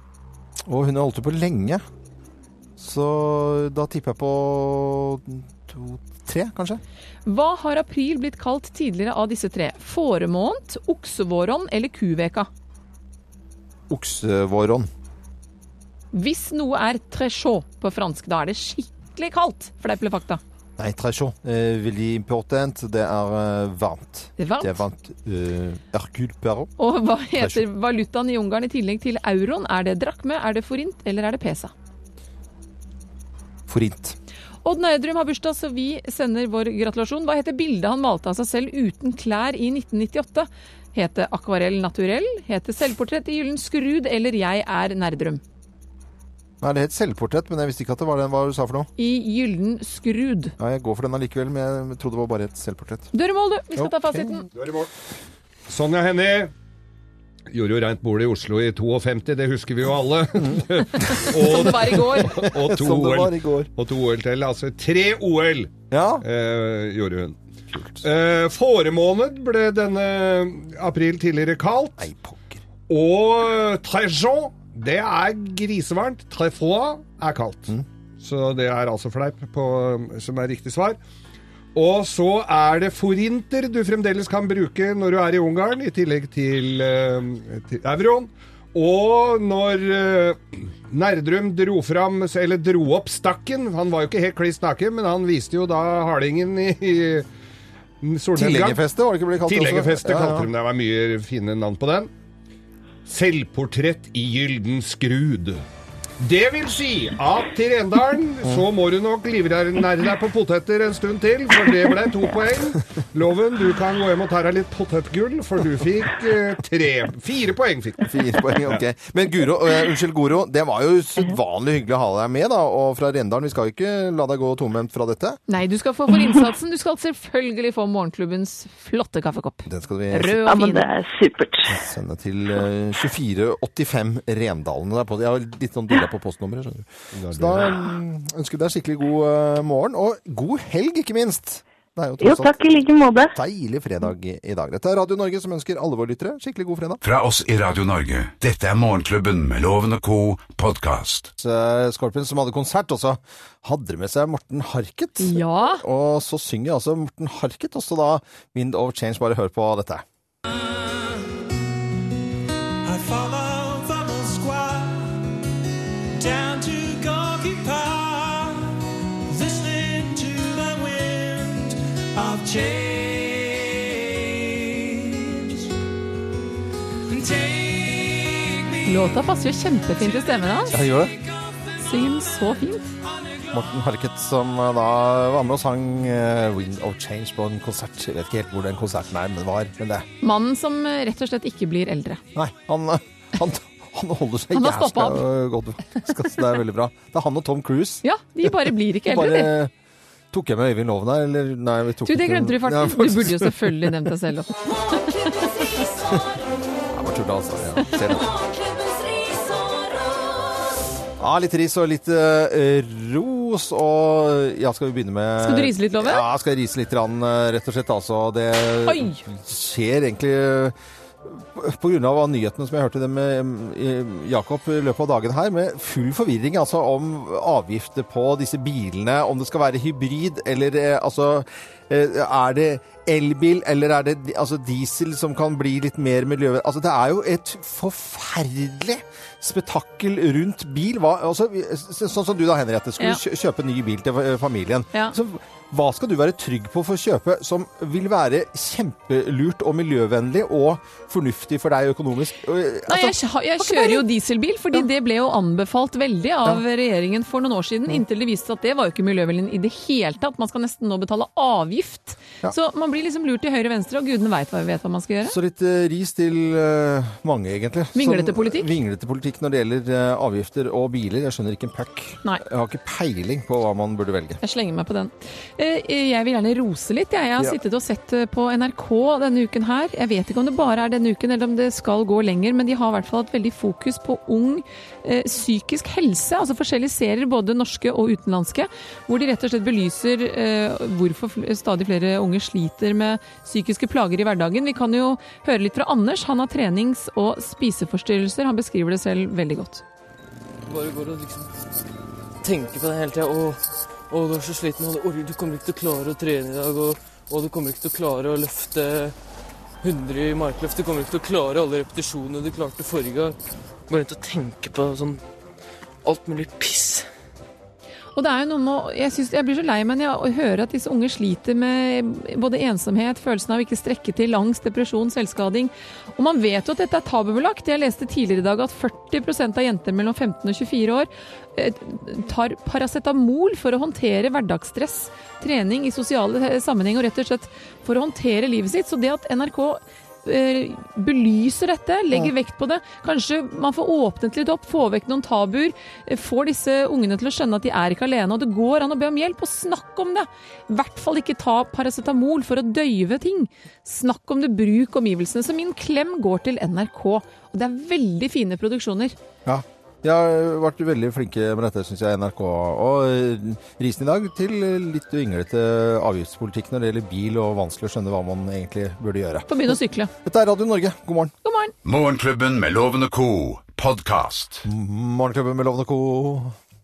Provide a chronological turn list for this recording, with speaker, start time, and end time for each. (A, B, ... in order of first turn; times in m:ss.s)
0:00.7-0:01.8 A
0:02.8-0:06.8 A
0:07.2-0:12.5 B
0:13.9-0:14.9 A
0:16.1-0:20.4 B
0:20.8-0:26.7 A
0:24.4-0:24.8 B
0:26.8-0:31.7 B
0:27.4-0:27.6 A
0:33.7-0:34.2 A
0:34.6-0:45.4 B
0:46.6-0:48.9 A
0:49.0-0:50.5 B
0:50.6-0:53.1 A
0:53.1-0:54.5 B
0:53.8-0:54.3 A
0:54.5-0:54.9 C
0:55.7-0:56.5 C
0:57.5-1:07.4 C
1:00.4-1:03.7 A
1:01.1-1:02.5 B
1:05.9-1:06.2 A
1:07.7-1:08.0 A
1:08.0-1:12.0 C
1:12.0-1:12.6 A
1:12.9-1:21.0 C
1:21.7-1:37.2 C
1:38.0-1:38.8 C
1:38.3-1:40.5 A
1:39.4-1:42.1 C
1:43.0-1:45.6 C
1:46.2-1:58.1 C
1:58.0-2:05.4 A
2:05.5-2:10.9 B
2:09.6-2:10.4 A
2:10.4-2:11.8 D
2:11.7-2:22.5 A
2:17.1-2:17.8 C
2:22.2-2:23.4 D
2:23.3-2:27.0 A
2:27.0-2:31.3 E
2:31.4-2:40.0 A
2:35.2-2:35.8 B
2:40.8-2:41.1 F
2:42.8-2:45.3 F
2:46.2-2:55.7 F
2:57.1-2:59.1 F
2:58.8-3:00.8 B
3:00.7-3:01.1 A
3:01.0-3:01.6 F
3:01.8-3:02.8 B
3:03.5-3:10.1 A
3:10.2-3:12.2 B
3:12.3-3:19.7 A
3:14.5-3:15.2 B
3:18.0-3:19.6 B
3:20.3-3:24.0 A
3:22.0-3:25.3 B
3:26.9-3:28.4 A
3:31.2-4:14.0 A
3:35.4-3:36.2 B
3:38.8-3:39.2 B
4:12.9-4:25.4 B
4:25.2-4:34.4 A
4:27.9-4:28.7 B
4:34.4-4:59.8 B
5:00.6-5:01.5 G
5:02.4-5:09.1 G
5:09.8-5:13.4 G
5:13.9-5:15.2 G
5:16.0-5:17.1 G
5:18.2-5:59.1 B
5:59.4-6:11.3 A
6:09.5-6:10.1 B
6:11.4-6:11.7 B
6:11.8-6:14.7 E
6:14.6-6:16.5 A